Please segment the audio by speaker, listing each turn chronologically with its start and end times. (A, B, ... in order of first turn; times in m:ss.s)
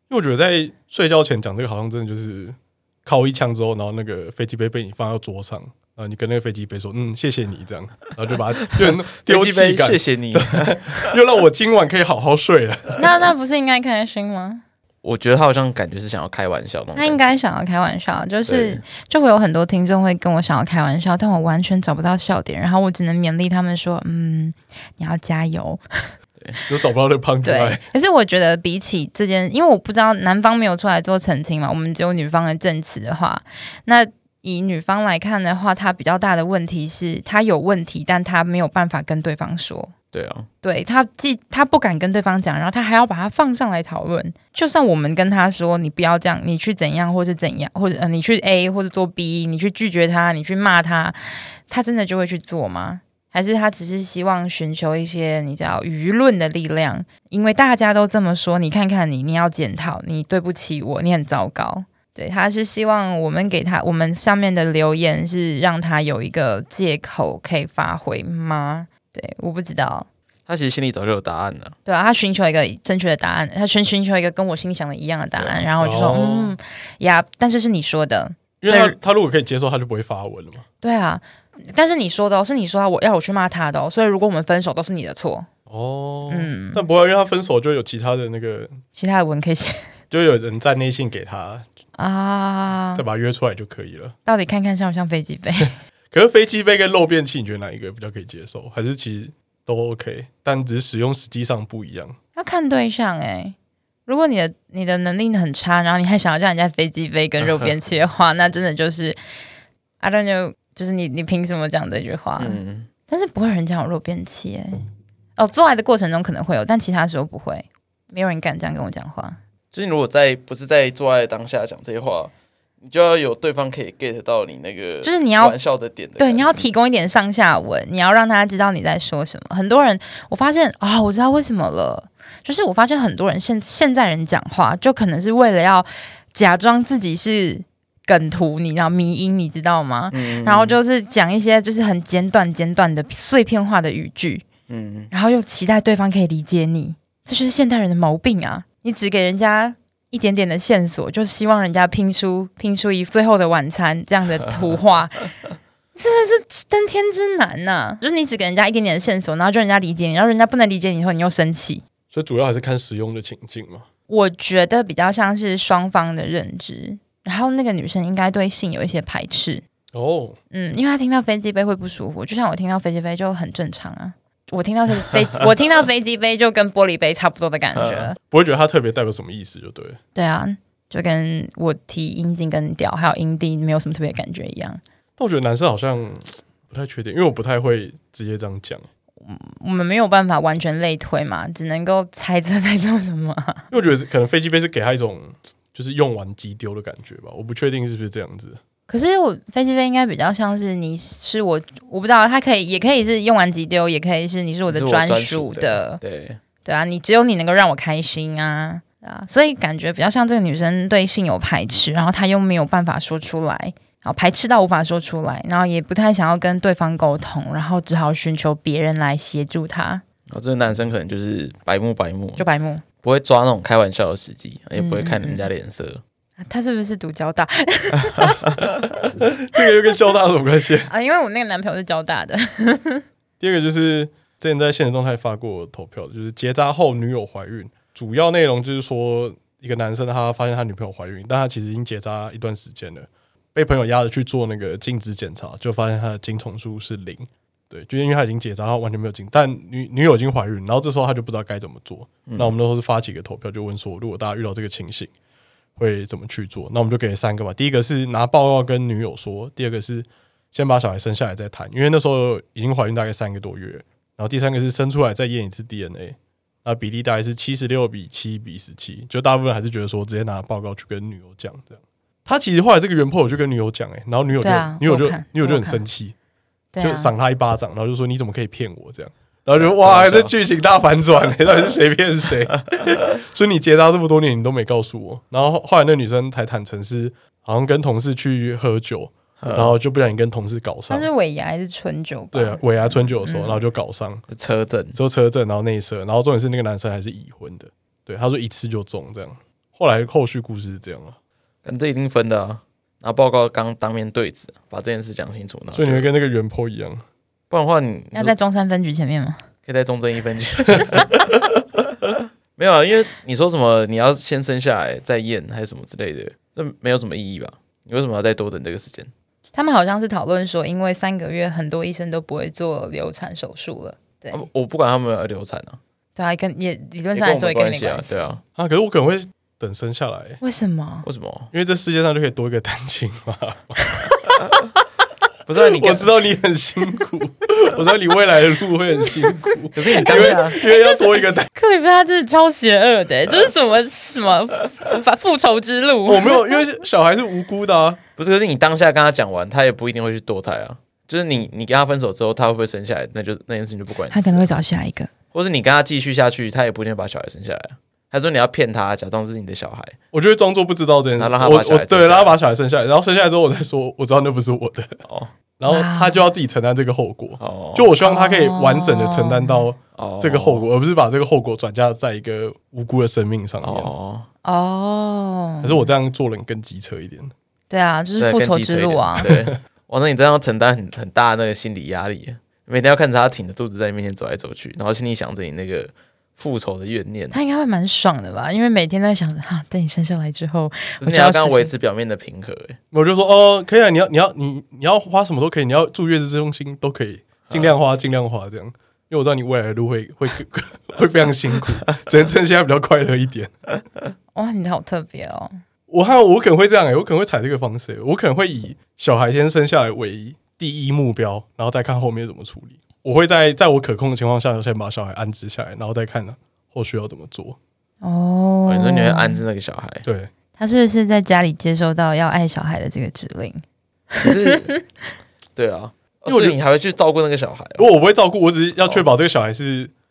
0:00.1-0:13.2 A
0:08.9-0:11.1 B
0:13.0-0:14.6 C
0:15.0-0:17.4 B
0:17.0-0:25.8 C
0:18.5-0:18.8 B
0:26.7-0:27.8 A
0:27.4-0:39.9 C
0:40.1-0:40.5 B
0:40.6-1:10.1 C
1:10.5-1:11.8 B
1:11.9-1:19.0 C
1:15.4-1:15.7 B
1:15.8-1:16.6 A
1:18.6-1:20.7 A
1:20.8-1:25.5 C
1:25.7-1:28.8 A
1:26.3-1:26.8 C
1:29.0-1:29.9 C
1:30.1-1:31.7 A
1:32.0-1:33.0 C
1:32.9-1:34.2 A
1:34.3-1:35.8 C
1:36.1-1:42.2 A
1:42.4-1:43.6 C
1:44.1-1:49.2 C
1:50.0-1:59.4 C
1:52.4-1:52.9 B
1:59.7-2:06.7 B
2:05.0-2:05.6 C
2:06.2-2:24.5 C
2:20.1-2:20.8 B
2:24.7-2:25.1 B
2:25.1-2:35.3 C
2:36.0-2:41.8 C
2:42.1-2:43.9 A
2:44.1-2:49.6 C
2:49.9-2:50.4 A
2:50.5-2:58.2 C
2:57.8-2:58.1 B
2:58.2-3:00.0 A
3:00.2-3:04.8 C
3:05.2-3:08.9 A
3:09.2-3:13.7 C
3:13.7-3:18.6 A
3:18.9-3:26.0 C
3:24.7-3:26.4 B
3:26.6-3:40.0 C
3:40.3-3:42.4 B
3:42.4-3:42.8 C
3:43.0-3:46.0 B
3:44.8-3:45.5 C
3:46.4-3:48.6 C
3:49.2-3:50.9 A
3:50.9-3:53.0 C
3:53.4-4:15.1 A
4:12.3-4:12.5 B
4:15.8-4:36.1 A
4:34.4-4:35.8 C
4:36.7-4:37.1 C
4:36.8-4:51.1 A
4:39.6-4:40.3 B
4:49.4-4:49.8 B
4:50.9-4:53.6 C
4:52.3-4:54.2 A
4:54.3-4:55.0 B
4:54.9-5:01.2 A
5:01.6-5:06.1 B
5:05.7-5:07.0 A
5:07.5-5:08.4 B
5:08.2-5:09.4 C
5:09.7-5:19.1 B
5:19.6-5:24.4 C
5:24.3-5:25.8 B
5:26.2-5:28.2 C
5:27.1-5:28.4 B
5:28.6-5:30.4 A
5:30.4-5:31.1 C
5:31.0-5:31.5 B
5:31.5-5:34.1 A
5:35.5-5:36.1 B
5:35.7-5:41.5 A
5:39.8-5:40.6 B
5:40.0-5:46.6 C
5:46.1-5:48.0 A
5:48.2-5:54.5 B
5:54.1-5:55.1 C
5:55.3-6:00.0 B
6:00.1-6:05.0 A
6:01.2-6:02.4 B
6:05.0-6:05.3 B
6:05.6-6:13.9 A
6:05.7-6:06.2 C
6:07.4-6:07.9 B
6:08.0-6:09.7 C
6:10.0-6:10.7 B
6:13.6-6:14.3 B
6:14.4-6:15.9 C
6:15.6-6:17.3 A
6:17.7-6:19.3 C
6:18.2-6:27.4 B
6:19.3-6:19.5 A
6:27.3-6:31.7 C
6:31.0-6:32.8 B
6:32.9-6:43.5 A
6:44.4-6:45.6 C
6:45.9-6:57.6 A
6:58.0-6:59.4 C
6:58.7-7:00.0 B
7:00.0-7:00.3 A
7:00.6-7:03.6 C
7:04.1-7:04.8 C
7:04.2-7:04.7 B
7:05.6-7:07.9 B
7:06.3-7:06.6 A
7:07.8-7:09.9 A
7:08.8-7:09.0 B